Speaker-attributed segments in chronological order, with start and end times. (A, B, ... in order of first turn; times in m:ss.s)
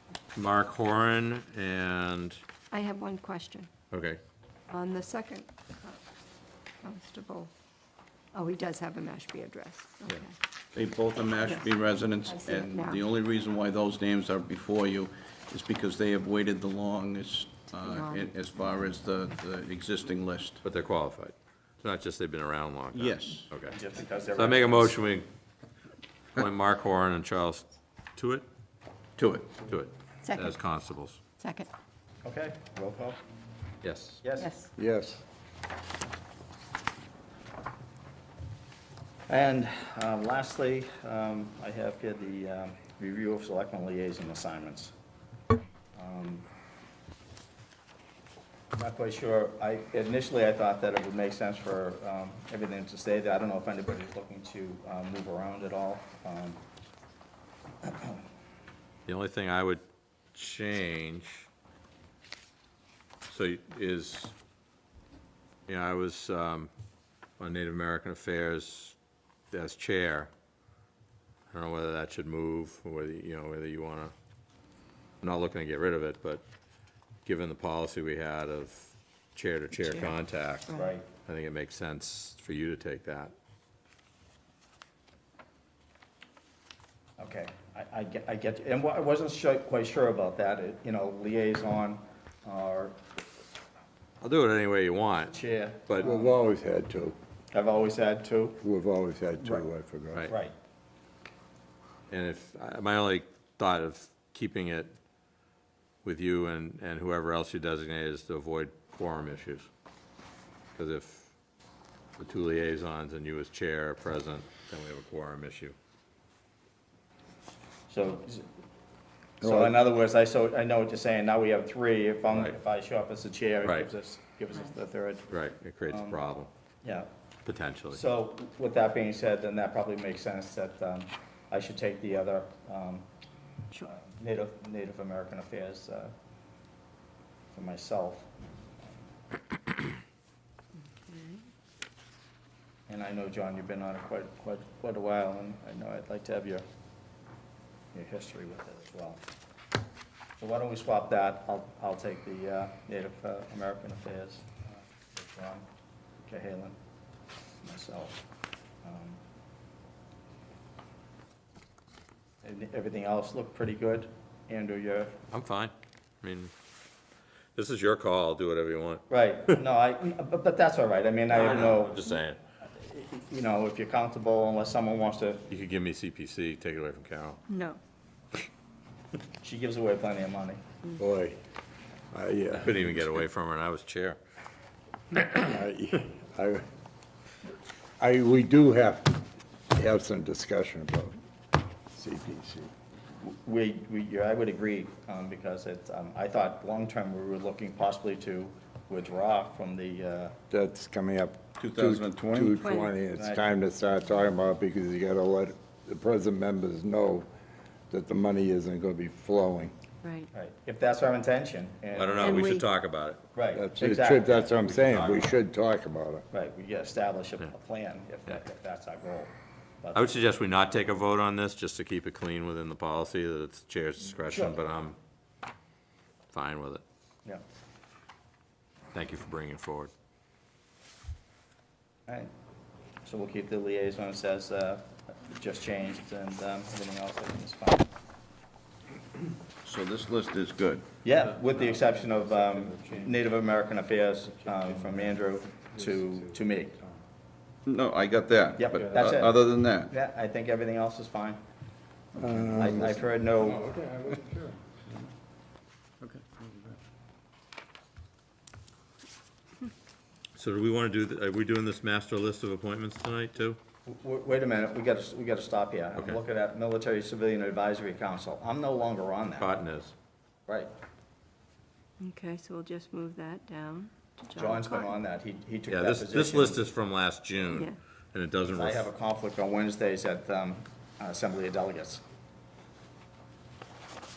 0:00.4-0:02.4 A
0:02.7-0:03.7 B
0:03.9-0:04.2 A
0:04.7-0:06.0 B
0:06.8-0:07.5 B
0:08.3-0:10.3 B
0:10.7-0:20.6 C
0:12.3-0:13.0 B
0:17.7-0:18.3 B
0:20.6-0:23.8 A
0:22.9-0:23.5 C
0:23.7-0:25.0 D
0:24.3-0:25.3 A
0:26.4-0:28.4 A
0:29.2-0:29.7 C
0:29.6-0:31.2 A
0:30.2-0:30.5 B
0:31.4-0:31.7 B
0:32.2-0:33.2 D
0:33.8-0:34.2 A
0:34.2-0:34.5 D
0:34.3-0:34.7 B
0:34.8-0:35.2 E
0:39.3-0:44.9 D
0:46.0-0:46.5 D
0:48.7-0:56.6 D
0:57.8-0:58.2 D
0:59.1-0:59.8 A
1:00.3-1:01.5 A
1:03.3-1:04.3 A
1:05.7-1:06.7 A
1:07.4-1:09.0 A
1:09.5-1:10.3 A
1:11.5-1:14.1 A
1:15.2-1:16.4 A
1:17.2-1:23.3 A
1:19.8-1:21.0 B
1:20.8-1:21.1 D
1:27.2-1:33.0 D
1:34.2-1:36.1 A
1:35.3-1:36.3 D
1:36.0-1:37.2 E
1:37.5-1:38.6 D
1:38.6-1:40.3 E
1:39.4-1:39.6 D
1:40.3-1:40.6 D
1:42.1-1:44.9 A
1:46.0-1:49.7 A
1:50.8-1:51.3 A
1:52.2-1:55.8 A
1:57.9-1:58.5 D
1:59.4-1:59.8 E
1:59.4-2:05.3 D
2:02.3-2:02.6 A
2:03.6-2:03.9 A
2:05.3-2:06.5 A
2:05.9-2:06.2 D
2:06.8-2:07.1 D
2:07.4-2:08.0 A
2:07.9-2:13.1 D
2:13.9-2:16.1 D
2:17.5-2:18.3 D
2:21.1-2:21.4 B
2:22.9-2:26.6 D
2:27.9-2:29.2 D
2:30.4-2:35.7 D
2:36.3-2:36.8 D
2:37.6-2:38.2 D
2:38.8-2:39.2 D
2:42.4-2:45.2 D
2:45.3-2:46.5 A
2:47.6-2:49.0 A
2:49.1-2:52.0 D
2:51.3-2:52.4 A
2:52.8-2:55.5 D
2:55.5-2:57.4 A
2:57.5-2:57.8 B
2:59.4-3:00.6 D
3:01.0-3:01.4 E
3:02.1-3:03.1 E
3:02.6-3:04.2 A
3:05.2-3:06.7 E
3:08.0-3:11.2 E
3:11.9-3:12.7 E
3:13.2-3:20.4 D
3:20.5-3:27.3 E
3:21.6-3:22.6 C
3:22.6-3:23.0 B
3:23.2-3:23.4 D
3:27.9-3:29.7 E
3:30.0-3:30.3 B
3:30.3-3:32.6 D
3:31.9-3:33.2 A
3:32.2-3:32.7 B
3:33.3-3:35.3 D
3:33.5-3:36.2 E
3:36.3-3:40.1 D
3:39.9-3:45.0 A
3:44.2-3:44.6 D
3:46.3-3:46.8 A
3:48.9-3:49.9 A
3:53.0-3:57.9 D
3:59.6-4:00.9 C
4:01.0-4:06.8 D
4:07.6-4:09.9 C
4:08.6-4:09.4 D
4:09.9-4:11.4 D
4:12.2-4:13.0 E
4:12.3-4:13.6 D
4:20.4-4:23.6 A
4:23.9-4:29.5 D
4:26.0-4:26.2 A
4:29.4-4:29.9 A
4:32.0-4:35.0 B
4:34.4-4:36.6 D
4:35.7-4:38.9 A
4:37.5-4:37.8 B
4:38.5-4:42.0 D